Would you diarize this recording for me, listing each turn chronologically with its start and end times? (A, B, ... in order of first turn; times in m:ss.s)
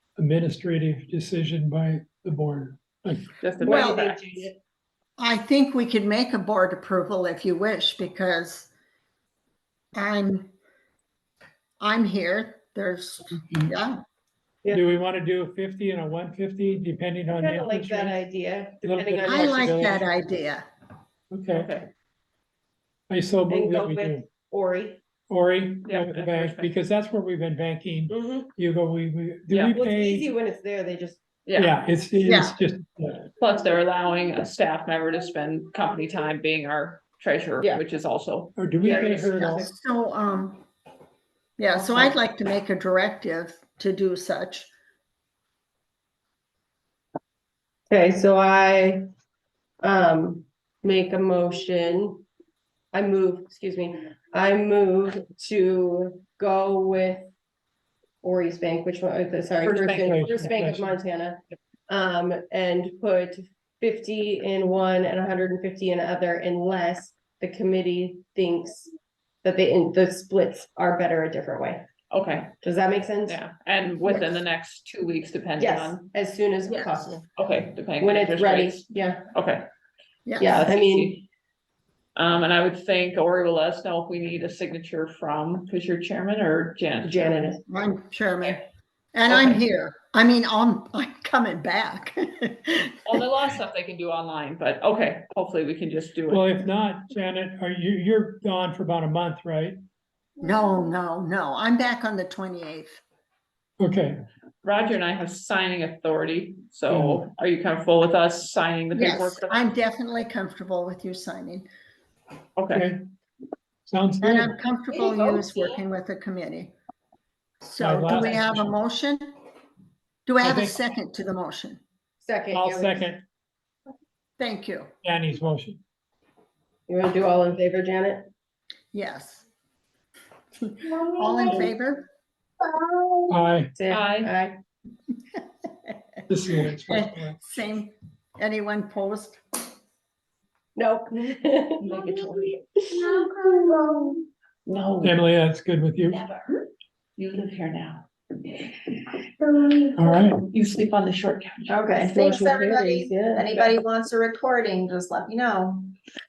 0:00.2-0:03.3 A
0:03.4-0:04.5 B
0:03.6-0:04.6 C
0:03.6-0:04.0 D
0:05.2-0:08.7 D
0:10.0-0:10.5 D
0:11.8-0:14.0 D
0:14.7-0:18.2 A
0:17.3-0:19.8 C
0:18.8-0:20.1 A
0:19.2-0:20.6 D
0:21.3-0:21.7 A
0:21.5-0:21.9 B
0:23.1-0:24.3 A
0:23.5-0:25.0 C
0:25.3-0:30.3 A
0:25.8-0:26.7 B
0:28.1-0:28.5 C
0:29.5-0:29.8 B
0:29.7-0:31.2 C
0:31.4-0:31.8 B
0:31.6-0:33.3 A
0:32.2-0:32.6 D
0:33.4-0:39.2 B
0:38.6-0:39.7 A
0:38.8-0:39.7 C
0:39.3-0:40.6 D
0:41.6-0:44.7 D
0:41.7-0:42.2 C
0:47.9-0:49.0 C
0:49.8-0:52.2 C
0:52.9-0:57.3 C
0:58.2-1:08.9 C
0:59.6-1:00.4 B
1:00.0-1:01.0 A
1:09.4-1:11.9 C
1:12.1-1:12.5 B
1:12.6-1:13.4 C
1:13.2-1:16.0 B
1:14.1-1:14.4 D
1:15.6-1:17.2 C
1:16.7-1:17.2 D
1:17.3-1:19.7 B
1:18.0-1:19.3 C
1:20.2-1:20.6 D
1:20.4-1:21.2 C
1:20.5-1:21.2 B
1:22.2-1:27.5 B
1:27.0-1:27.6 C
1:27.7-1:28.6 D
1:29.1-1:33.2 D
1:29.3-1:29.6 C
1:33.1-1:36.4 B
1:36.3-1:39.8 A
1:40.4-1:43.0 D
1:43.8-1:44.2 A
1:44.6-1:49.6 B
1:46.9-1:47.3 A
1:48.9-1:51.7 D
1:52.6-1:52.9 B
1:52.7-1:53.0 A
1:53.8-1:54.5 A
1:54.2-1:56.7 D
1:54.9-1:55.7 C
1:57.6-1:59.3 D
1:57.8-1:58.7 A
2:00.2-2:01.8 D
2:00.4-2:00.8 A
2:02.2-2:03.1 C
2:02.5-2:03.2 A
2:04.4-2:04.9 D
2:05.0-2:05.8 A
2:06.9-2:08.3 C
2:08.9-2:09.4 D
2:10.6-2:12.1 D
2:13.3-2:13.7 A
2:13.8-2:14.6 C
2:13.9-2:14.3 B
2:16.3-2:17.4 A
2:16.9-2:19.4 D
2:20.8-2:22.0 C
2:21.8-2:22.6 B
2:22.8-2:23.1 C
2:22.9-2:24.2 E
2:24.7-2:25.2 B
2:25.0-2:26.2 A
2:26.1-2:26.4 B
2:27.2-2:28.9 B
2:29.5-2:31.8 B
2:30.0-2:30.4 A
2:31.7-2:33.5 C
2:31.7-2:35.9 E